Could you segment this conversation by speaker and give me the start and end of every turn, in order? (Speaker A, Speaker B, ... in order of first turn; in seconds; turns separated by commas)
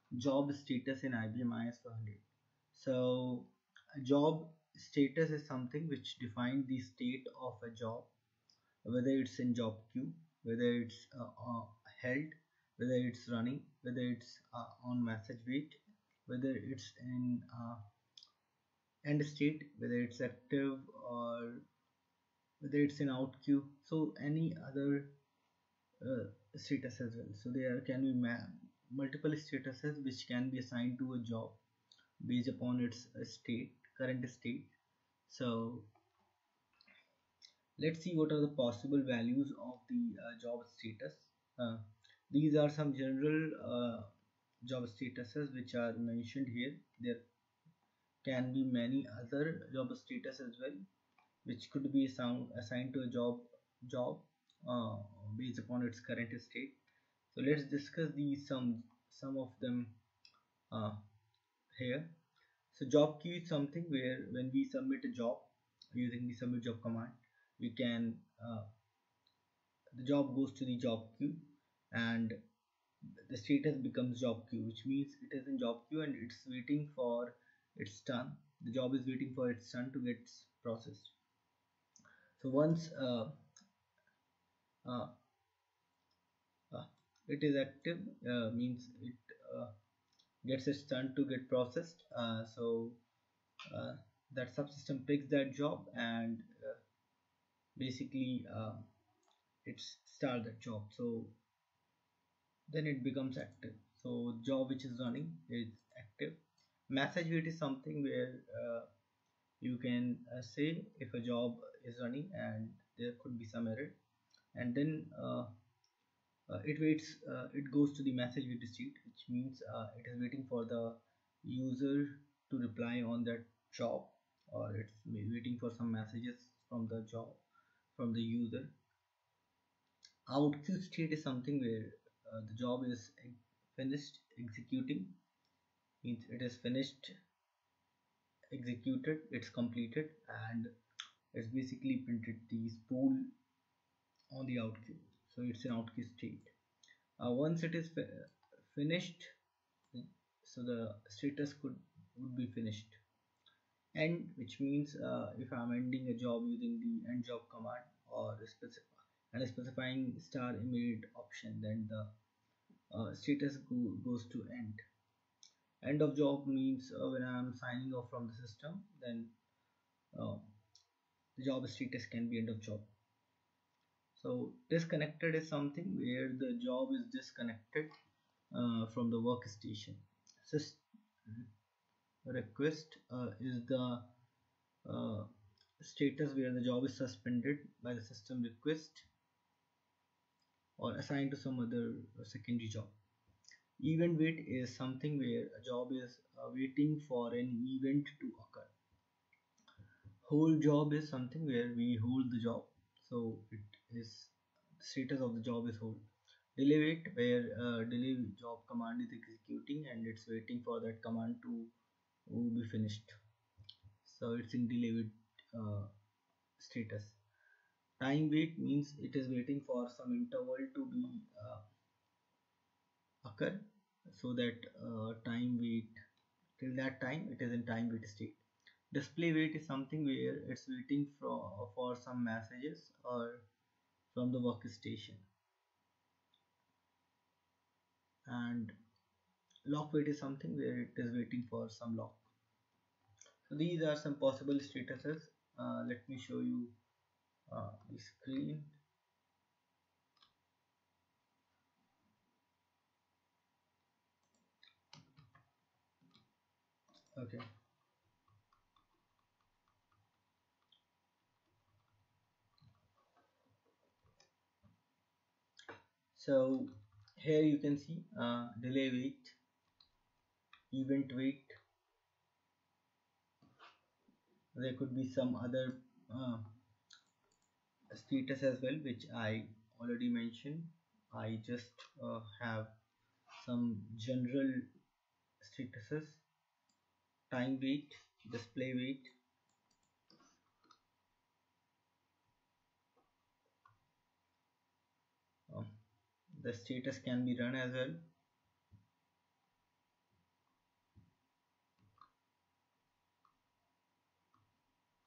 Speaker A: 0.1-8.1, Speaker A: 8.8-17.8, Speaker A: 19.0-21.6, Speaker A: 22.6-25.1, Speaker A: 26.0-31.6, Speaker A: 32.2-34.7, Speaker A: 35.3-35.9, Speaker A: 37.8-44.1, Speaker A: 44.6-47.2, Speaker A: 48.2-50.8, Speaker A: 51.4-56.8, Speaker A: 57.3-60.0, Speaker A: 60.7-61.0, Speaker A: 61.8-62.1, Speaker A: 62.7-68.7, Speaker A: 69.9-72.4, Speaker A: 73.2-81.1, Speaker A: 82.4-83.3, Speaker A: 84.8-85.1, Speaker A: 86.7-89.7, Speaker A: 90.4-93.0, Speaker A: 93.7-96.8, Speaker A: 97.8-98.8, Speaker A: 99.6-101.3, Speaker A: 102.7-108.9, Speaker A: 109.6-114.0, Speaker A: 114.5-115.5, Speaker A: 116.5-127.4, Speaker A: 127.9-128.7, Speaker A: 130.3-135.1, Speaker A: 136.0-137.1, Speaker A: 138.5-140.7, Speaker A: 141.3-143.2, Speaker A: 144.3-146.5, Speaker A: 147.2-149.3, Speaker A: 149.9-153.0, Speaker A: 153.9-162.1, Speaker A: 162.9-164.8, Speaker A: 165.8-169.3, Speaker A: 170.1-170.5, Speaker A: 171.4-172.9, Speaker A: 174.1-177.9, Speaker A: 178.5-181.5, Speaker A: 182.2-184.1, Speaker A: 184.8-185.3, Speaker A: 185.8-189.1, Speaker A: 190.8-192.9, Speaker A: 193.8-198.7, Speaker A: 200.2-206.0, Speaker A: 206.6-211.7, Speaker A: 212.3-213.2, Speaker A: 214.0-215.9, Speaker A: 216.6-217.2, Speaker A: 218.0-221.6, Speaker A: 223.2-225.9, Speaker A: 226.6-228.4, Speaker A: 228.9-233.5, Speaker A: 234.1-235.2, Speaker A: 238.3-238.7, Speaker A: 239.7-242.2, Speaker A: 243.5-246.8, Speaker A: 247.5-248.8, Speaker A: 257.1-257.4, Speaker A: 266.1-269.4, Speaker A: 270.7-271.5, Speaker A: 274.5-276.5, Speaker A: 277.9-282.7, Speaker A: 283.4-284.7, Speaker A: 285.4-286.2, Speaker A: 287.3-289.1, Speaker A: 296.4-298.1